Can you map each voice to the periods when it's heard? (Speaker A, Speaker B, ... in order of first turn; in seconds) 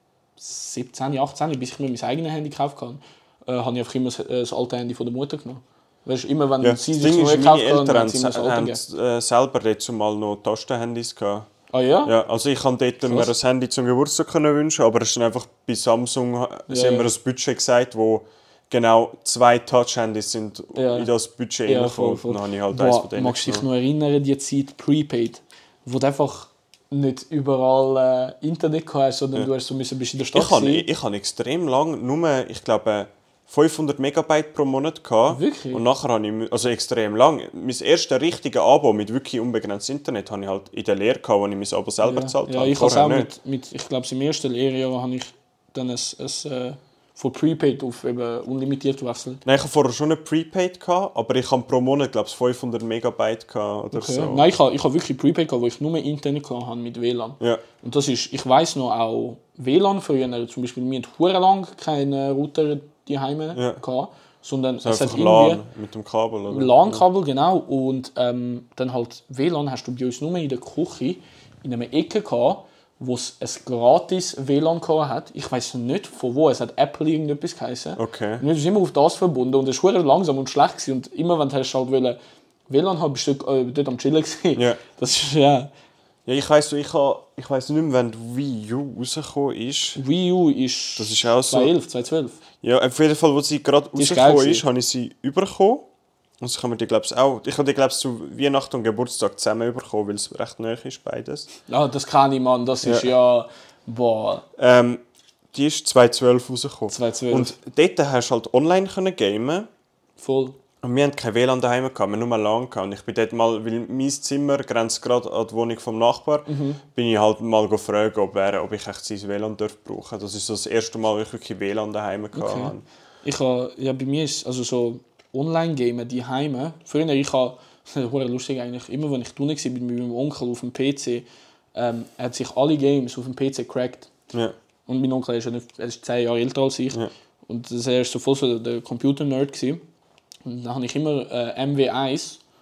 Speaker A: 0.4-8.8, 11.7-12.1, 16.7-17.1, 20.7-21.1, 21.6-30.9, 35.3-35.8, 42.0-49.4, 53.9-65.6, 66.5-82.2, 82.7-85.7, 90.0-92.4, 94.0-94.6, 101.7-104.4, 106.9-107.5, 110.2-110.5, 116.5-116.8, 122.3-134.1, 134.9-139.8, 140.4-142.4
Speaker B: 6.6-11.5, 12.0-23.7, 30.3-43.3, 49.4-54.5, 63.5-63.8, 64.8-67.0, 78.0-78.4, 84.5-84.8, 86.2-90.0, 91.0-91.7, 92.6-95.8, 96.4-101.5, 102.8-103.1, 104.6-105.0, 105.5-109.7, 110.8-122.8